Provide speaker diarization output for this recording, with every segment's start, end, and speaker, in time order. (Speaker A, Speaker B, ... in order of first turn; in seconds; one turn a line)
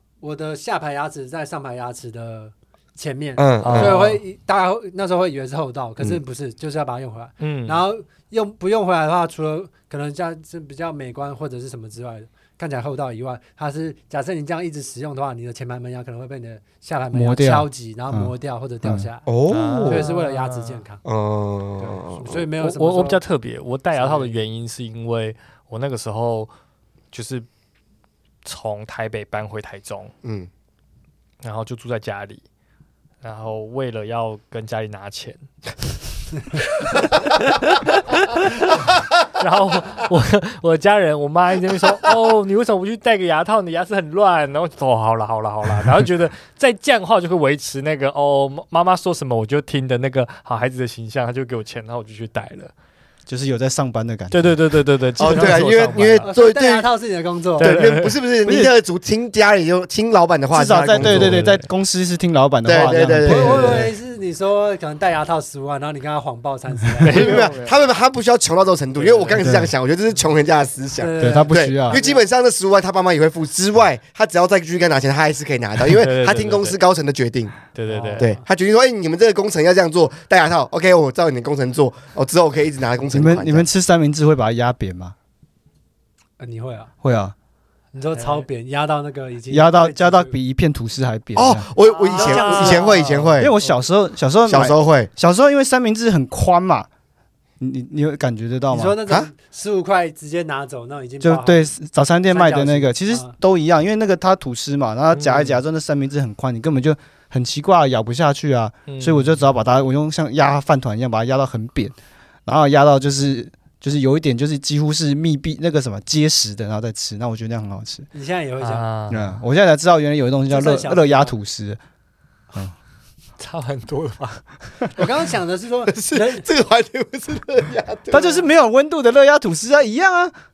Speaker A: 0.2-19.3
Speaker B: 3.4-4.1
Speaker C: 3.6-4.2
Speaker C: 7.4-7.8
Speaker D: 17.1-18.3
Speaker B: 19.3-20.1
Speaker C: 19.5-20.8
Speaker A: 19.9-21.0
Speaker B: 21.1-22.5
Speaker A: 21.8-23.2
Speaker C: 22.6-26.5
Speaker A: 24.0-24.4
Speaker C: 27.1-27.5
Speaker C: 28.4-30.1
Speaker B: 30.2-30.5
Speaker C: 31.4-32.4
Speaker C: 33.2-35.4
Speaker C: 36.5-52.7
Speaker D: 53.3-54.6
Speaker C: 54.3-56.3
Speaker B: 55.2-56.9
Speaker A: 56.2-57.7
Speaker C: 57.6-58.2
Speaker B: 57.6-61.5
Speaker D: 58.5-58.7
Speaker D: 60.5-63.9
Speaker C: 61.0-61.7
Speaker B: 62.6-63.9
Speaker A: 63.2-67.5
Speaker C: 67.0-67.8
Speaker B: 67.1-77.5
Speaker C: 69.0-69.5
Speaker D: 69.4-69.7
Speaker A: 71.0-72.2
Speaker D: 71.2-72.0
Speaker C: 75.8-76.8
Speaker C: 77.7-78.3
Speaker A: 77.9-78.4
Speaker B: 78.2-83.7
Speaker D: 83.1-85.2
Speaker A: 86.4-86.9
Speaker D: 87.0-87.3
Speaker A: 87.9-90.3
Speaker C: 88.2-88.4
Speaker D: 89.5-91.7
Speaker B: 91.4-93.5
Speaker C: 91.9-93.3
Speaker A: 92.0-93.8
Speaker D: 93.4-96.9
Speaker B: 94.5-95.1
Speaker D: 97.6-99.0
Speaker A: 98.7-101.7
Speaker D: 101.2-111.9
Speaker A: 102.3-103.3
Speaker C: 105.1-105.6
Speaker C: 108.9-109.4
Speaker D: 112.5-118.1
Speaker A: 118.1-118.9
Speaker C: 118.6-119.4
Speaker D: 119.1-121.8
Speaker A: 120.5-121.4
Speaker C: 123.4-124.4
Speaker A: 125.0-126.5
Speaker B: 125.9-128.4
Speaker D: 128.1-130.3